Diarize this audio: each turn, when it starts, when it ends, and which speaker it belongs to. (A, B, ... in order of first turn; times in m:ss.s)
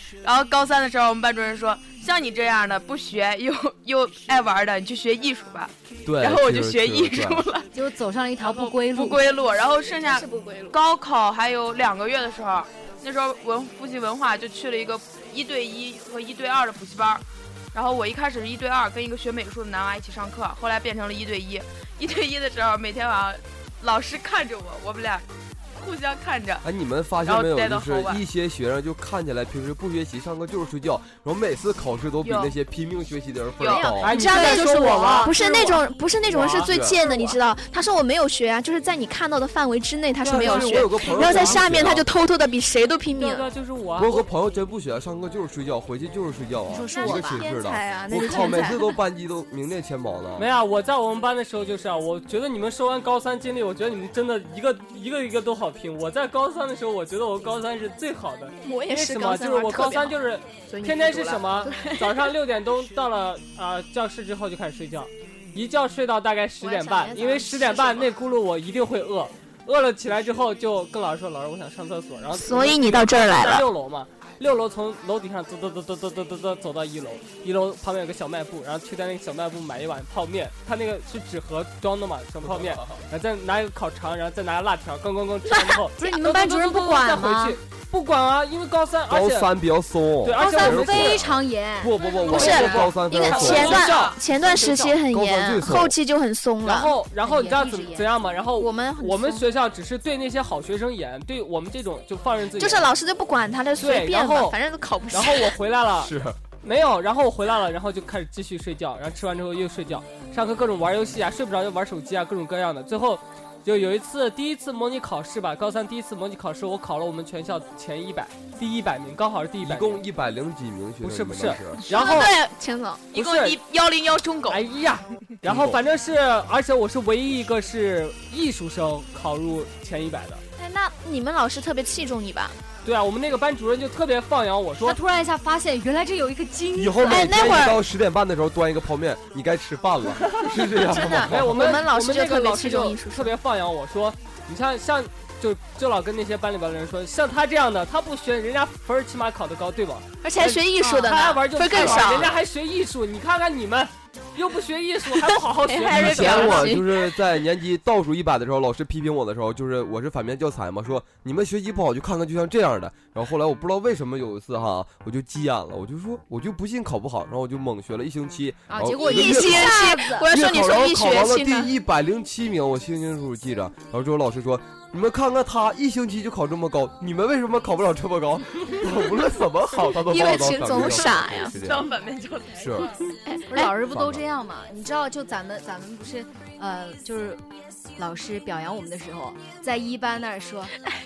0:00.2-0:07.7 A
0:06.0-0:07.5 B
0:07.7-0:09.2 C
0:08.4-0:26.6 A
0:10.0-0:10.8 D
0:26.6-0:34.1 B
0:27.2-0:28.2 A
0:32.2-0:32.5 A
0:33.6-0:34.0 A
0:33.6-0:43.4 D
0:34.0-0:36.7 E
0:34.0-0:35.4 C
0:36.6-0:37.0 B
0:37.0-0:37.4 A
0:40.2-0:41.6 E
0:40.3-0:42.1 B
0:43.2-0:44.2 E
0:44.0-0:50.5 B
0:46.7-0:47.5 C
0:46.9-0:49.0 D
0:50.4-1:29.5 E
0:58.6-1:00.2 D
1:00.7-1:02.3 D
1:06.6-1:08.1 D
1:12.3-1:13.7 D
1:26.0-1:27.6 C
1:29.1-1:33.8 B
1:30.2-1:31.2 E
1:30.4-1:32.6 C
1:32.2-1:35.0 E
1:32.3-1:36.9 D
1:33.3-1:34.2 A
1:35.1-1:36.0 B
1:36.6-1:42.9 E
1:37.2-1:38.0 C
1:38.6-1:39.4 D
1:42.6-1:45.5 D
1:43.8-1:44.6 E
1:45.1-2:00.0 E
1:46.0-1:46.4 B
1:59.6-2:01.8 B
2:01.0-2:02.3 E
2:01.9-2:03.1 D
2:02.0-2:02.3 A
2:03.1-2:04.6 A
2:03.1-2:03.6 E
2:04.5-2:10.4 E
2:05.4-2:05.8 B
2:10.6-2:12.6 D
2:12.8-2:15.0 E
2:14.8-2:17.7 C
2:16.7-2:21.8 B
2:17.0-2:17.8 D
2:20.3-2:36.8 E
2:20.9-2:23.3 D
2:30.2-2:32.3 D
2:30.8-2:32.3 A
2:35.6-2:37.1 D
2:35.9-2:36.8 A
2:35.9-3:01.9 B
2:48.7-2:50.3 C
2:49.1-2:50.6 A
2:49.1-2:51.7 D
2:59.8-3:01.5 D
3:01.5-3:03.0 A
3:02.6-3:02.9 B
3:03.3-3:03.7 D
3:03.5-3:07.4 C
3:03.8-3:04.2 B
3:08.0-3:10.7 C